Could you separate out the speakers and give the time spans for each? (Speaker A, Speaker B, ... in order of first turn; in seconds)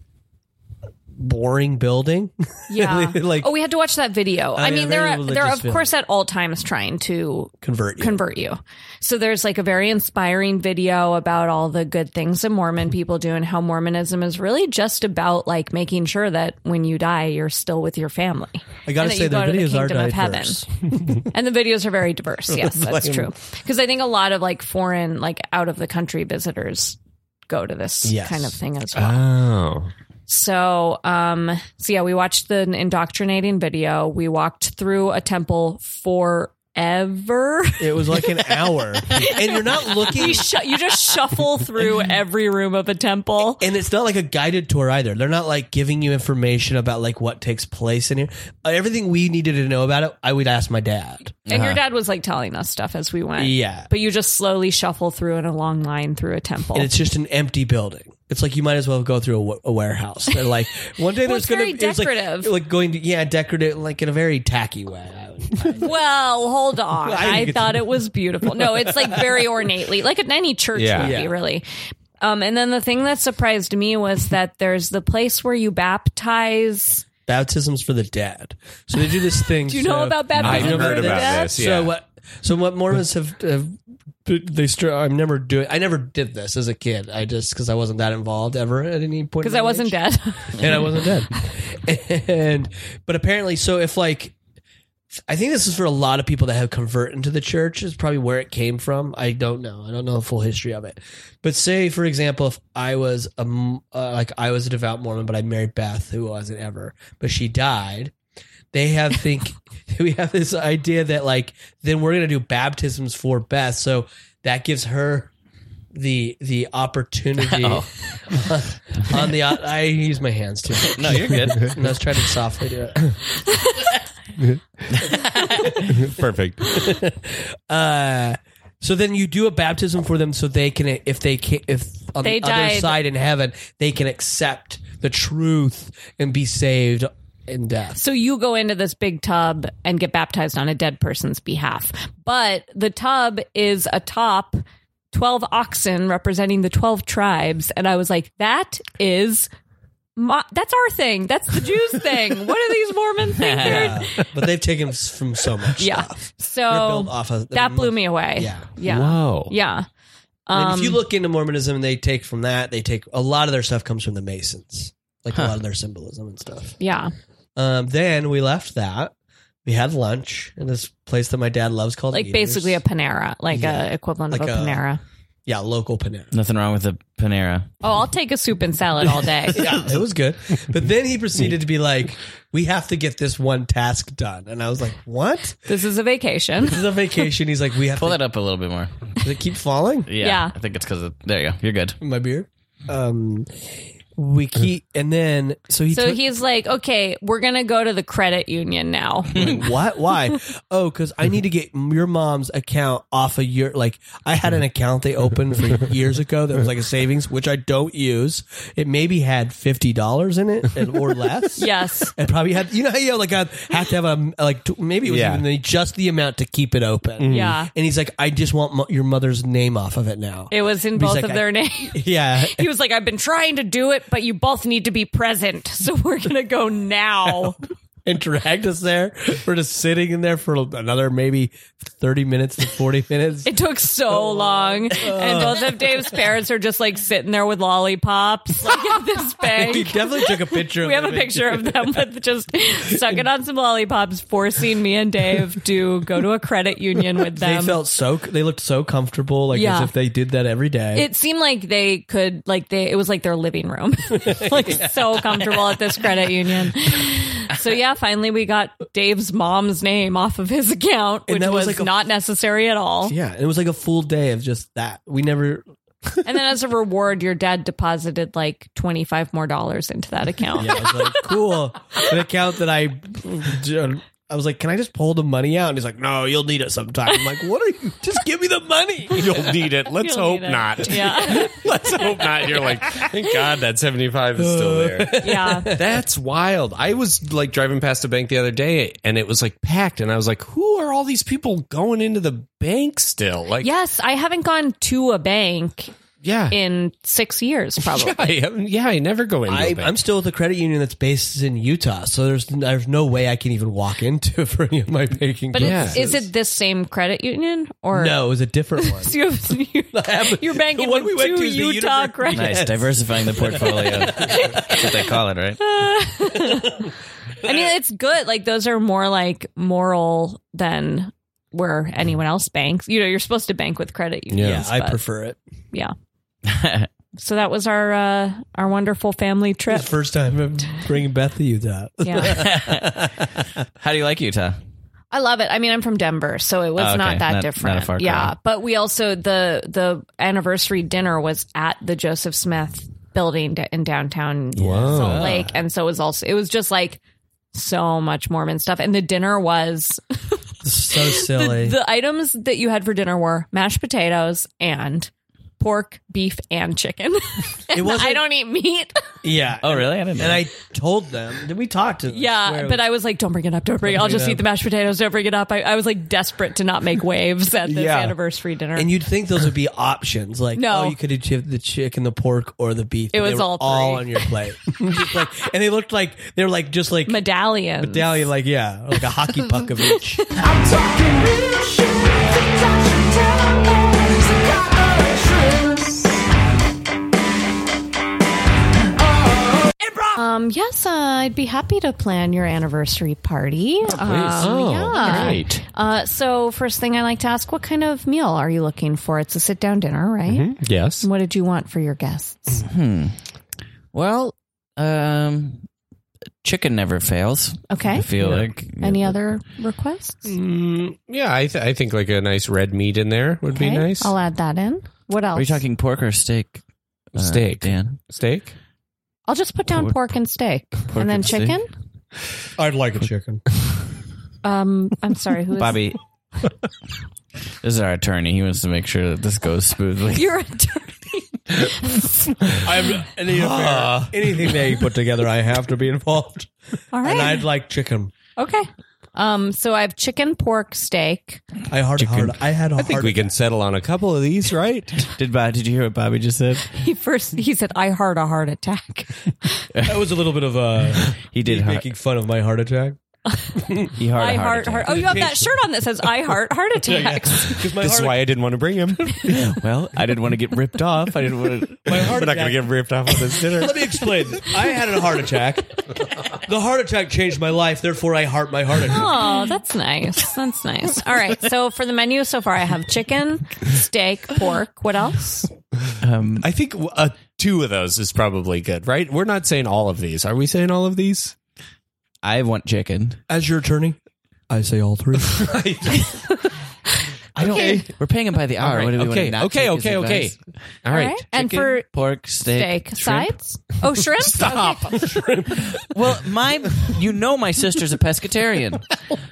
Speaker A: 1.1-3.5, 4.5-5.9, 7.6-8.2, 18.9-21.2, 22.8-23.2, 28.0-28.6, 37.8-40.6, 43.6-51.4, 53.4-53.9, 56.7-65.9, 67.0-69.4, 71.0-71.3, 77.3-94.3, 95.3-108.1, 108.7-115.3, 115.9-123.2, 126.7-138.0, 153.6-158.7, 160.5-166.8, 167.6-169.1, 169.7-172.8, 173.5-174.8, 175.5-176.3, 179.5-185.7, 186.6-188.2, 189.2-190.1, 192.0-196.2, 199.3-222.7, 228.1-233.5, 234.1-236.1, 239.4-242.1, 247.3-251.1, 254.2-255.8, 261.3-261.9, 263.1-266.2, 270.5-279.7, 284.4-285.9, 299.5-306.3, 307.9-309.2, 309.9-314.6, 316.5-316.9, 324.4-325.4, 329.7-333.3, 344.6-345.4, 350.6-351.8, 357.7-358.2, 359.2-362.8, 363.8-364.4, 368.8-377.2, 377.8-380.2, 422.6-423.4, 432.6-438.1, 441.7-443.3, 449.8-453.0, 453.6-453.9, 454.9-455.3, 456.8-458.3, 461.9-469.2, 483.3-484.0, 484.5-486.0
Speaker B: 2.7-20.6, 21.2-27.0, 27.5-29.3, 30.3-43.6, 51.5-56.9, 61.2-62.5, 65.8-71.7, 72.2-77.0, 79.6-81.6, 89.4-91.0, 123.4-123.9, 132.2-133.0, 138.0-149.5, 150.2-154.3, 155.8-159.9, 160.5-161.0, 166.8-167.1, 172.1-175.0, 177.8-179.8, 185.7-186.9, 190.2-190.5, 195.9-199.6, 211.6-212.1, 217.3-217.7, 220.5-227.6, 233.4-247.8, 249.5-249.9, 250.9-263.1, 266.2-271.4, 277.1-277.3, 279.9-281.7, 285.1-285.7, 293.6-295.9, 296.5-298.3, 305.5-308.2, 308.8-312.6, 314.0-325.0, 327.2-329.9, 332.0-332.4, 335.1-347.0, 347.5-359.2, 362.1-368.9, 370.6-371.0, 373.1-374.3, 377.1-378.1, 390.1-402.7, 407.7-410.2, 413.5-415.6, 419.3-421.7, 424.4-425.9, 430.1-432.1, 436.9-437.5, 438.4-441.4, 446.7-449.7, 454.1-457.7, 468.9-475.5, 487.5-487.9, 490.9-495.0
Speaker C: 28.9-29.9, 70.8-71.2, 80.4-81.9, 126.0-126.8, 158.8-159.5, 215.1-215.4, 217.2-217.6, 279.1-285.1, 285.7-293.7, 296.2-296.6, 297.8-299.9, 305.6-306.0, 324.3-324.6, 344.6-345.3, 367.6-368.2, 394.0-395.6, 400.3-401.1, 410.2-414.1, 417.2-418.5, 433.3-434.7, 442.8-445.1, 457.7-459.3, 462.0-463.9, 476.4-481.4, 485.4-486.1, 487.4-487.8, 488.6-491.6, 494.2-495.8
Speaker D: 51.5-51.8, 117.5-117.9, 120.9-121.8, 125.0-125.9, 153.4-154.0, 176.3-177.7, 188.0-188.9, 190.1-192.0, 312.3-315.6, 326.4-326.9, 332.2-333.1, 333.8-334.6, 336.8-338.3, 345.0-345.3, 359.6-360.4, 402.7-403.2, 403.9-405.6, 406.4-409.1, 415.4-416.6, 417.1-418.0, 420.9-421.6, 425.6-426.0, 427.6-430.3, 442.0-442.4, 445.1-446.7, 449.8-450.0, 451.1-451.9, 453.9-455.3, 459.2-462.1, 476.0-476.5, 482.2-483.2, 487.4-490.4, 491.4-493.3, 495.8-498.9
Speaker E: 380.3-386.1, 389.0-389.8